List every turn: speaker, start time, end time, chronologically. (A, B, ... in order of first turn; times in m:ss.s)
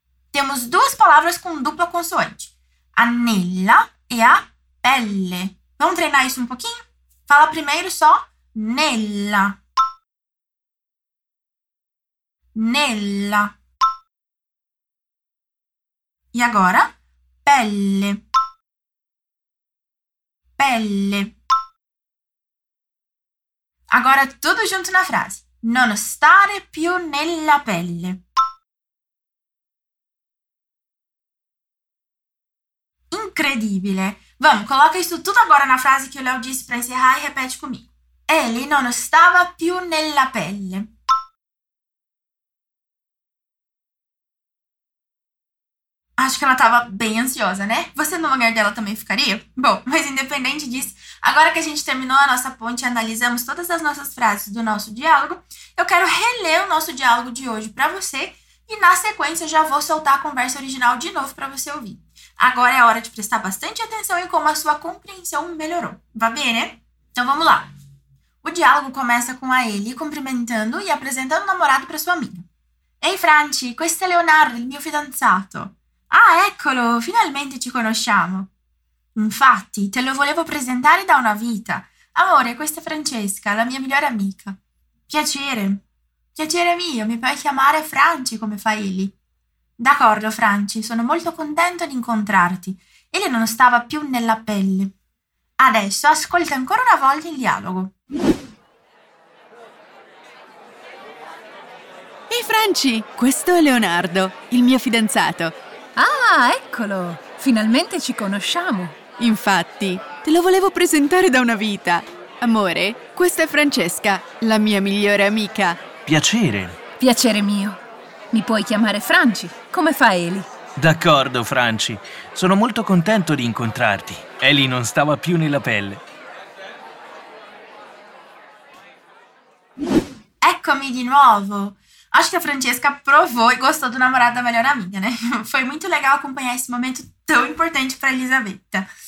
0:00.3-0:09.6 A
0:12.5-0:13.5 A
0:16.3-0:16.9 A
0:17.4-0:18.2 A
0:20.6-0:21.3 A
0:23.9-0:28.2 A
0:33.1-0:40.9 A
0:46.2-1:07.7 A
1:08.4-1:12.5 A
1:13.0-1:18.5 A
1:19.1-1:24.6 A
1:25.1-1:25.8 A
1:26.3-1:29.2 A
1:29.8-1:34.9 A
1:35.6-1:37.9 A
1:42.3-1:45.5 B
1:46.0-1:49.0 C
1:49.2-1:55.8 B
1:56.0-1:56.8 D
1:57.0-1:57.8 C
1:58.3-2:00.5 C
2:00.8-2:06.0 D
2:10.4-2:18.9 A